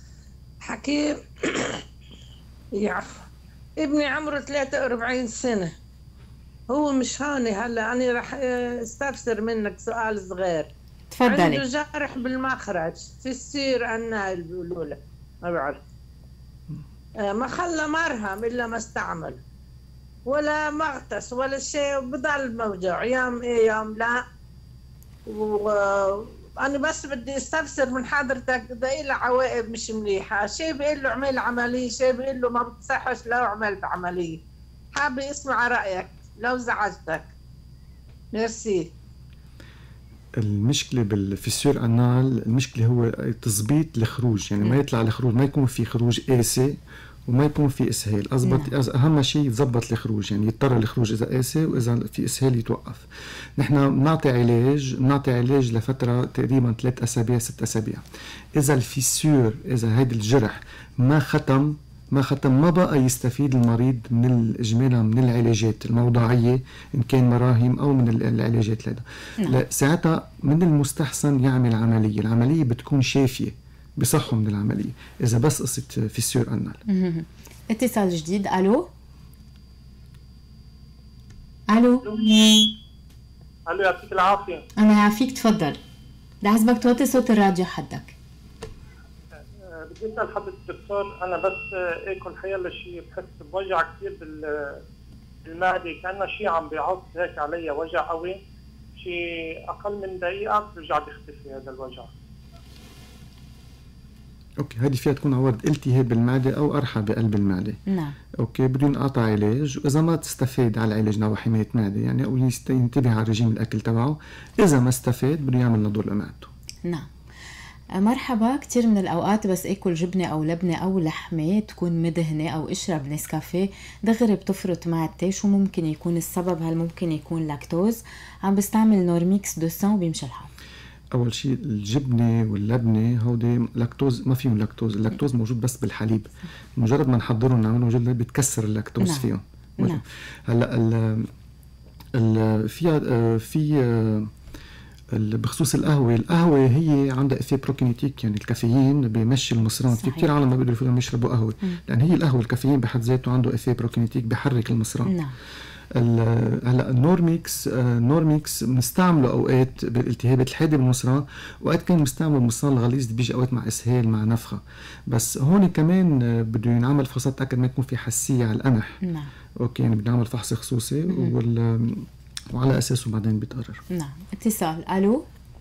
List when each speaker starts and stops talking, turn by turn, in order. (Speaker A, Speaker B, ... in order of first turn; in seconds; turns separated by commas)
Speaker A: 0.6-1.8, Speaker A: 2.8-3.1, Speaker A: 3.8-5.7, Speaker A: 6.7-10.7, Speaker B: 11.1-11.6, Speaker A: 11.2-15.8, Speaker A: 17.2-19.4, Speaker A: 20.3-24.2, Speaker A: 25.3-34.4, Speaker A: 35.0-37.3, Speaker A: 38.3-38.9, Speaker C: 40.4-58.0, Speaker B: 48.5-48.7, Speaker C: 58.6-76.8, Speaker B: 76.9-78.9, Speaker B: 81.7-82.2, Speaker D: 82.0-82.5, Speaker D: 83.7-84.6, Speaker B: 84.8-85.8, Speaker B: 86.4-88.2, Speaker D: 89.7-94.8, Speaker D: 95.5-98.4, Speaker D: 99.0-102.1, Speaker C: 104.6-107.8, Speaker B: 107.9-108.2, Speaker C: 108.4-116.5, Speaker B: 118.0-130.5, Speaker C: 131.1-141.3, Speaker B: 139.0-140.0, Speaker C: 142.2-144.3, Speaker C: 145.1-155.2, Speaker B: 149.9-150.3, Speaker B: 155.1-155.3, Speaker C: 155.9-169.0, Speaker B: 169.1-169.3, Speaker C: 169.6-173.8, Speaker B: 173.9-175.2